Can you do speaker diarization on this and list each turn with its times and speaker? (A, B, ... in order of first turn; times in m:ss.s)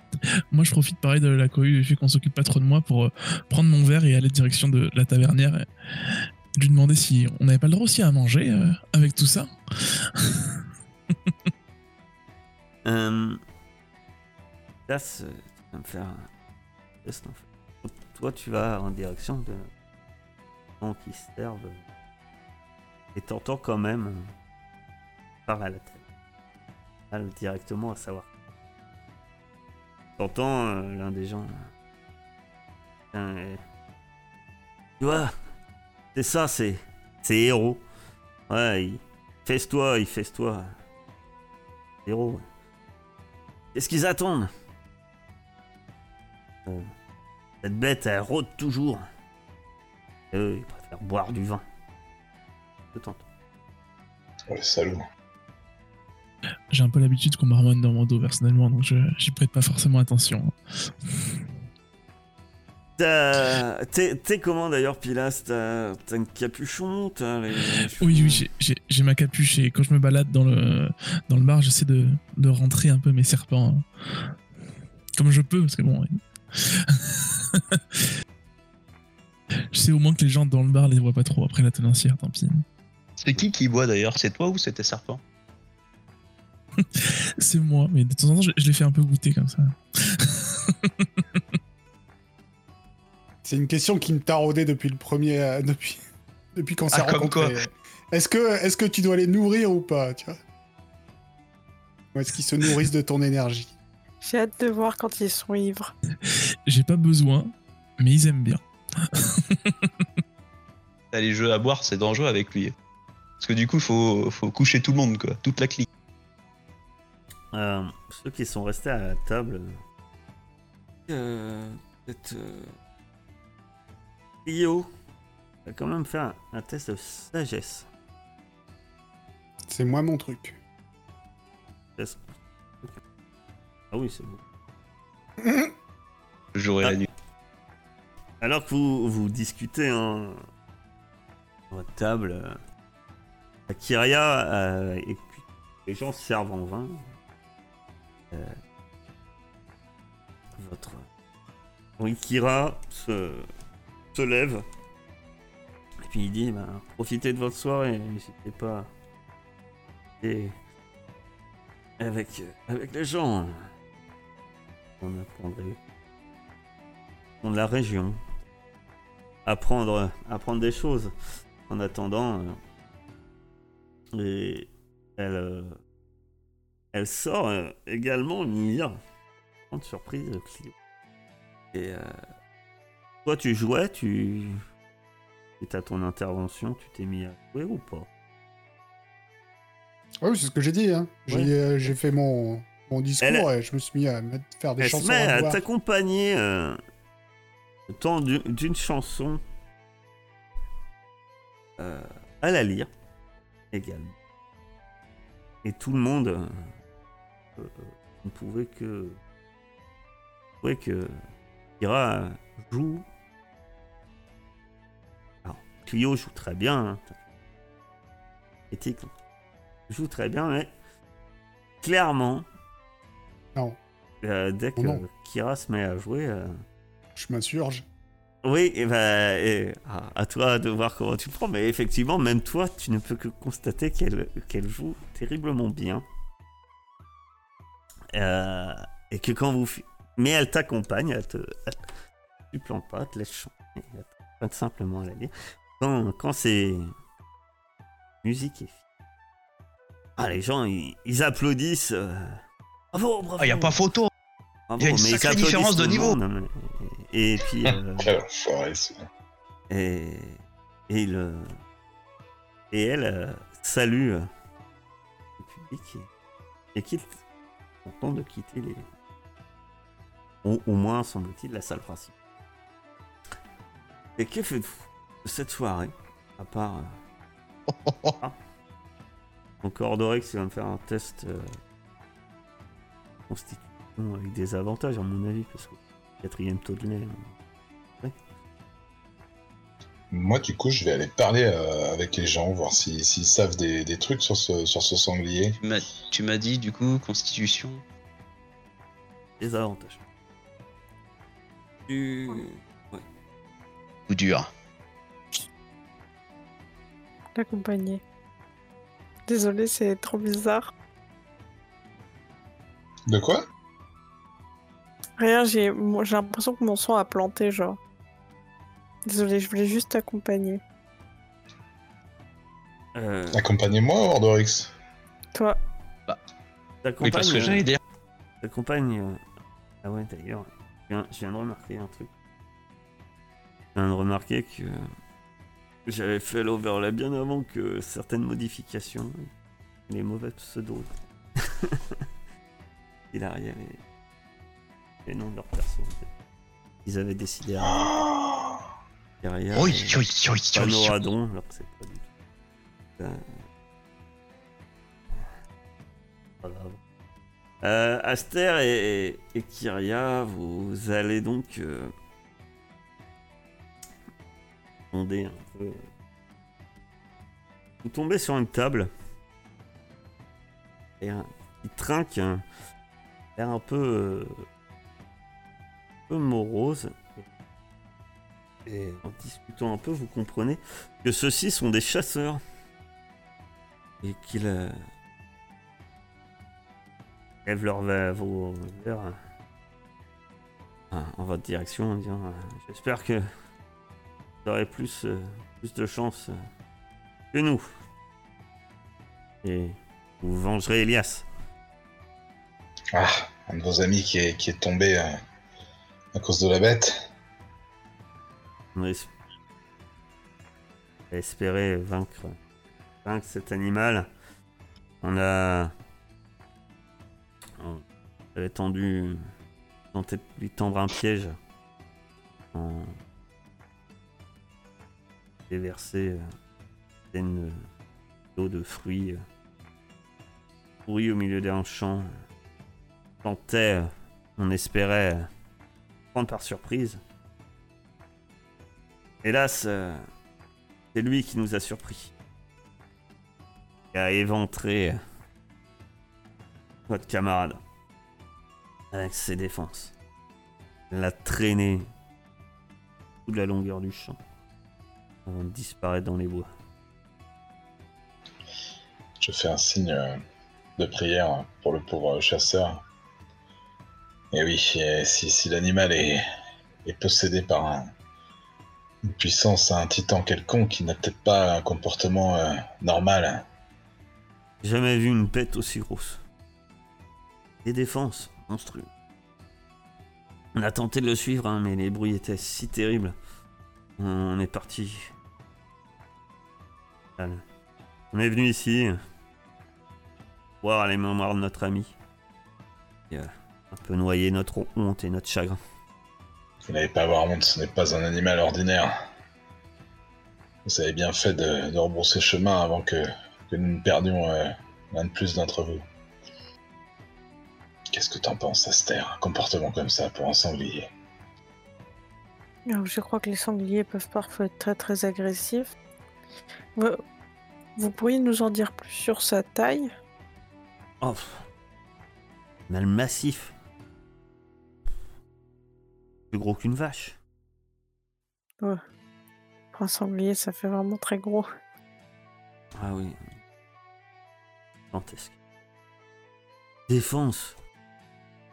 0:00.5-0:09.5 A
0:10.1-0:10.6 A
0:12.8-0:13.4 B
0:14.9-0:16.3 B
0:17.0-0:19.7 B
0:20.8-0:21.8 B
0:23.2-0:24.3 B
0:25.5-0:26.0 B
0:27.1-0:28.3 B
0:30.2-0:31.6 B
0:33.1-0:33.6 B
0:35.0-0:35.3 B
0:36.2-0:37.8 B
0:38.5-0:40.7 B
0:42.0-0:42.4 B
0:43.7-0:44.5 B
0:47.6-0:49.0 B
0:50.3-0:51.6 B
0:52.9-0:53.3 B
0:54.5-0:55.0 C
0:56.7-1:00.6 A
1:03.0-1:08.5 B
1:07.7-1:14.3 A
1:15.2-1:16.2 A
1:16.7-1:18.0 A
1:19.7-1:22.6 A
1:23.2-1:25.2 D
1:26.8-1:31.4 A
1:33.4-1:36.0 E
1:36.6-1:40.4 E
1:36.9-1:37.6 D
1:42.1-1:43.7 E
1:44.2-1:45.9 F
1:46.7-1:48.6 A
1:49.1-1:49.9 A
1:51.1-1:52.7 D
1:53.4-1:55.9 D
1:57.5-1:59.7 B
2:01.1-2:02.8 B
2:04.5-2:04.9 B
2:05.7-2:07.9 B
2:09.7-2:10.6 E
2:12.0-2:13.0 B
2:13.9-2:14.4 B
2:15.4-2:15.7 E
2:16.6-2:17.1 D
2:18.4-2:20.4 B
2:21.7-2:22.6 B
2:23.7-2:27.0 B
2:30.6-2:31.1 B
2:32.0-2:33.5 B
2:34.1-2:34.6 B
2:36.0-2:38.9 B
2:40.2-2:40.6 B
2:42.0-2:43.7 B
2:45.0-2:45.8 B
2:47.4-2:48.2 B
2:49.4-2:51.1 B
2:51.7-2:52.6 B
2:54.1-2:55.8 B
2:56.9-2:59.0 B
2:59.7-3:00.8 B
3:01.7-3:02.1 B
3:03.2-3:04.6 B
3:05.6-3:08.1 B
3:10.2-3:15.6 E
3:13.2-3:13.5 B
3:14.8-3:16.8 B
3:17.9-3:19.4 B
3:21.8-3:22.9 B
3:23.7-3:24.2 B
3:25.6-3:26.7 B
3:27.6-3:29.2 B
3:30.6-3:31.2 B
3:31.8-3:33.0 B
3:35.4-3:37.2 B
3:38.7-3:39.1 B
3:39.9-3:40.7 B
3:41.8-3:42.5 B
3:44.2-3:46.6 B
3:44.8-3:45.0 E
3:47.2-3:47.8 E
3:48.4-3:56.0 B
3:58.1-4:01.9 B
4:02.5-4:06.9 B
4:08.2-4:08.8 B
4:10.2-4:12.4 B
4:12.9-4:13.8 B
4:13.4-4:14.1 D
4:14.7-4:18.1 B
4:14.8-4:16.2 D
4:17.7-4:19.0 C
4:19.7-4:21.5 B
4:22.7-4:24.3 B
4:25.4-4:26.1 B
4:26.7-4:27.2 B
4:27.8-4:28.9 B
4:30.4-4:32.2 B
4:34.2-4:37.0 B
4:37.7-4:38.1 D
4:39.6-4:41.6 B
4:43.3-4:47.4 B
4:50.1-4:55.6 C
4:55.6-4:57.8 D
4:59.4-5:00.0 B
5:01.9-5:03.0 B
5:04.1-5:04.5 D
5:07.4-5:08.0 F
5:09.3-5:10.7 F
5:13.1-5:13.4 C
5:15.2-5:17.8 F
5:19.1-5:20.6 F
5:23.0-5:23.4 B
5:23.3-5:24.7 C
5:26.8-5:27.7 B
5:27.0-5:27.8 D
5:28.4-5:29.2 B
5:29.8-5:32.1 B
5:33.8-5:34.8 B
5:35.9-5:39.3 B
5:39.9-5:41.8 B
5:43.1-5:43.8 B
5:45.0-5:46.1 B
5:46.8-5:47.9 B
5:47.6-5:48.6 C
5:49.2-5:50.0 B
5:49.5-5:51.0 D
5:50.5-5:52.1 B
5:53.0-5:53.2 B
5:56.4-5:56.8 B
5:57.6-6:01.9 B
6:04.9-6:05.8 B
6:07.8-6:08.9 B
6:11.0-6:12.4 B
6:13.4-6:14.4 B
6:16.1-6:17.2 B
6:18.7-6:22.4 B
6:24.0-6:24.8 B
6:27.4-6:29.2 B
6:30.9-6:33.2 B
6:34.4-6:36.4 B
6:37.3-6:37.6 B
6:39.4-6:41.3 B
6:42.9-6:45.2 C
6:46.2-6:47.0 C
6:48.8-6:49.1 B
6:51.1-6:52.4 B
6:53.0-6:54.1 B
6:55.0-6:55.7 B
6:58.4-6:59.2 B
6:59.9-7:01.4 B
7:02.5-7:03.0 B
7:05.5-7:06.3 B
7:07.1-7:07.6 B
7:08.4-7:09.2 B
7:10.9-7:12.1 B
7:13.2-7:15.3 B
7:16.1-7:17.0 B
7:19.2-7:20.0 B
7:20.9-7:22.1 B
7:23.9-7:25.0 B
7:26.9-7:27.6 B
7:28.9-7:29.9 B
7:30.9-7:31.9 B
7:33.3-7:34.2 B
7:35.3-7:36.5 B
7:39.2-7:40.2 C
7:40.8-7:42.8 C
7:44.3-7:46.2 C
7:46.8-7:47.9 C
7:49.0-7:53.4 C
7:54.6-7:56.2 B
7:57.6-7:58.9 B
8:00.6-8:03.2 B
8:04.0-8:05.1 B
8:07.2-8:07.4 B
8:08.1-8:09.0 B
8:10.6-8:12.0 B
8:13.1-8:15.6 B
8:16.7-8:18.9 C
8:20.6-8:25.8 C
8:27.9-8:30.9 C
8:32.7-8:35.7 F
8:36.8-8:37.0 F
8:37.8-8:39.9 F
8:41.0-8:41.5 B
8:42.7-8:43.5 B
8:46.3-8:47.2 B
8:49.8-8:51.5 F
8:52.8-8:53.3 B
8:54.9-8:55.4 B
8:56.9-8:57.6 B